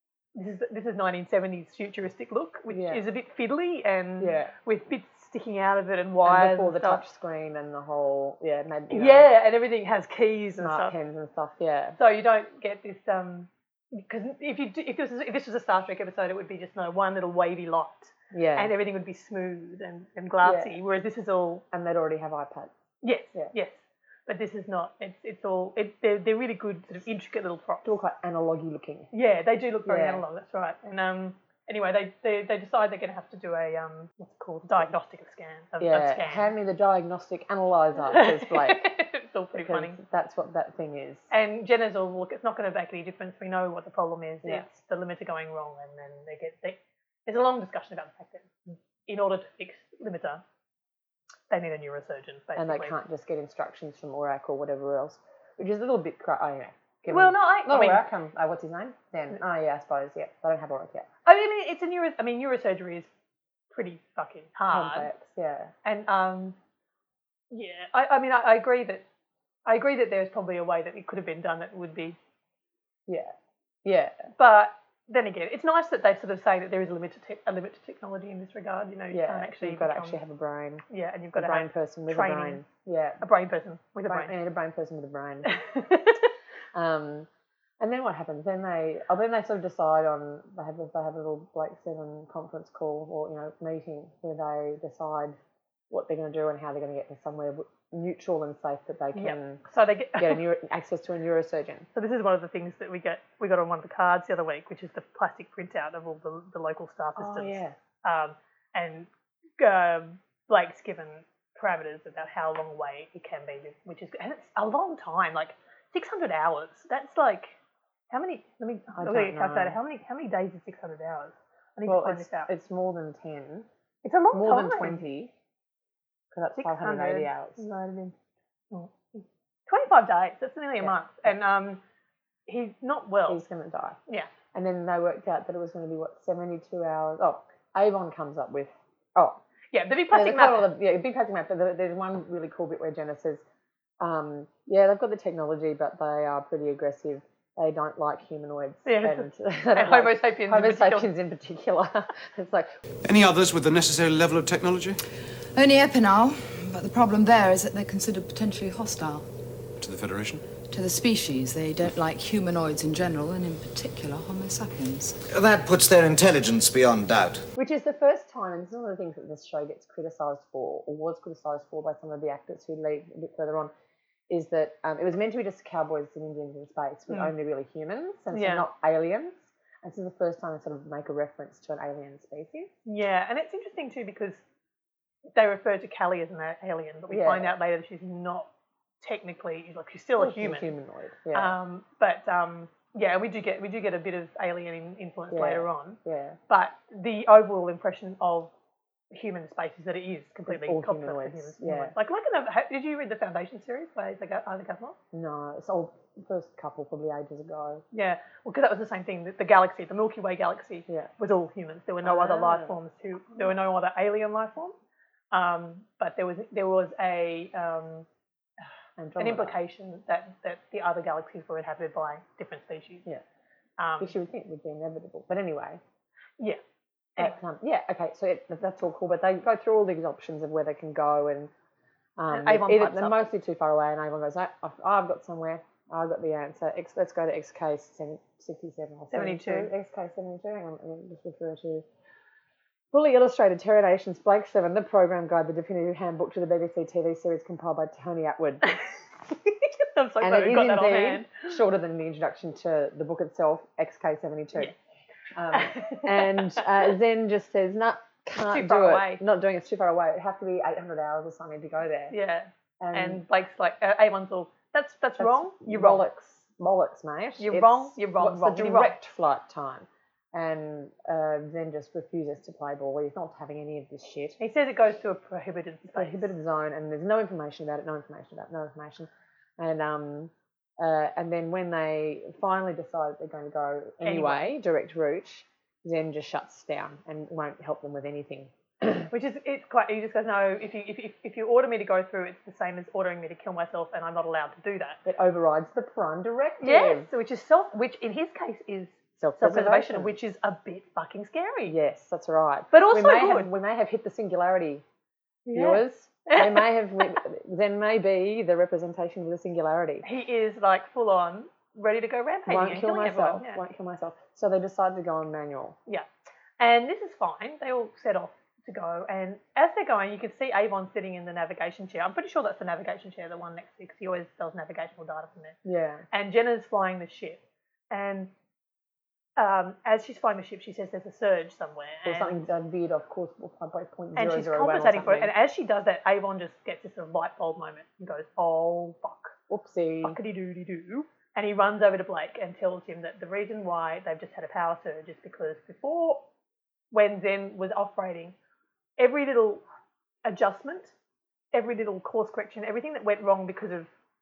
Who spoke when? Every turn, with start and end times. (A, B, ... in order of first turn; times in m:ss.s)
0:00.3-0:07.0 A
0:02.7-0:03.0 B
0:04.2-0:04.5 B
0:06.2-0:09.3 B
0:08.9-0:10.9 A
0:10.6-0:12.0 B
0:12.0-0:21.6 A
0:18.3-0:18.7 B
0:20.4-0:20.8 B
0:21.7-0:22.7 B
0:23.0-0:28.0 A
0:27.8-0:29.1 B
0:29.1-0:36.5 A
0:29.8-0:30.2 B
0:34.4-0:34.9 B
0:35.8-0:38.9 B
0:38.1-0:40.0 A
0:39.5-0:41.3 B
0:41.3-0:50.4 A
0:44.4-0:44.7 B
0:51.5-0:53.0 A
0:52.6-1:01.1 B
0:57.1-0:58.0 A
1:01.2-1:03.1 A
1:03.7-1:05.1 A
1:04.7-1:05.7 B
1:05.8-1:06.6 A
1:07.5-1:09.0 A
1:09.6-1:12.2 A
1:13.1-1:14.3 B
1:14.4-1:20.2 A
1:19.1-1:20.8 B
1:20.9-1:22.6 A
1:21.3-1:23.2 B
1:23.2-1:24.3 A
1:24.0-1:25.6 B
1:25.5-1:26.2 A
1:26.7-1:27.3 B
1:27.8-1:35.4 B
1:35.9-1:39.6 B
1:39.1-1:40.4 A
1:40.1-1:41.9 B
1:41.9-1:57.5 A
1:47.2-1:47.8 B
1:58.1-2:02.5 A
1:59.0-1:59.8 B
2:01.8-2:03.7 B
2:04.0-2:05.0 A
2:04.3-2:05.3 B
2:06.3-2:07.6 B
2:06.5-2:08.1 A
2:08.7-2:11.8 A
2:10.8-2:11.3 B
2:12.5-2:13.4 A
2:13.3-2:14.0 B
2:14.5-2:19.4 B
2:19.7-2:20.7 A
2:20.1-2:23.4 B
2:24.0-2:32.7 B
2:28.8-2:31.1 A
2:33.0-2:35.0 C
2:35.5-2:39.2 D
2:39.8-2:40.5 C
2:40.6-2:45.2 D
2:45.3-2:47.4 E
2:47.6-2:53.7 B
2:54.3-3:02.7 B
2:57.1-2:57.3 A
2:58.3-2:58.7 A
3:02.8-3:04.4 A
3:05.3-3:08.5 A
3:07.1-3:07.6 B
3:09.0-3:10.7 A
3:10.2-3:11.6 B
3:11.3-3:18.5 A
3:15.3-3:16.4 B
3:19.1-3:25.0 A
3:20.5-3:21.9 B
3:25.1-3:27.8 B
3:27.9-3:34.7 A
3:30.9-3:31.1 B
3:32.0-3:32.8 B
3:35.3-3:38.1 A
3:39.0-3:39.6 B
3:39.2-3:43.0 A
3:43.8-3:44.1 A
3:44.0-3:45.8 B
3:47.2-3:51.5 B
3:52.2-4:01.8 B
3:52.3-3:53.2 A
3:59.1-3:59.7 A
4:02.9-4:08.7 B
4:09.8-4:11.3 A
4:10.2-4:14.7 B
4:15.3-4:22.2 B
4:15.5-4:16.9 A
4:18.4-4:19.2 A
4:22.1-4:26.0 A
4:22.8-4:23.2 B
4:25.2-4:34.4 B
4:27.4-4:28.9 A
4:34.4-4:36.3 A
4:35.9-4:49.1 B
4:44.0-4:44.6 A
4:49.1-4:55.0 A
4:55.0-4:57.1 B
4:56.6-5:01.8 A
4:59.2-5:00.1 B
5:01.6-5:04.8 B
5:02.7-5:03.5 A
5:05.5-5:06.7 A
5:05.5-5:10.0 B
5:10.0-5:13.6 A
5:12.5-5:15.8 B
5:16.6-5:25.6 A
5:25.6-5:26.0 B
5:26.1-5:28.3 A
5:29.4-5:32.4 A
5:32.0-5:35.3 B
5:34.2-5:39.4 A
5:39.5-5:40.2 B
5:40.0-5:46.2 A
5:46.9-5:48.3 A
5:49.0-5:49.6 A
5:50.2-5:50.9 A
5:51.5-5:53.9 A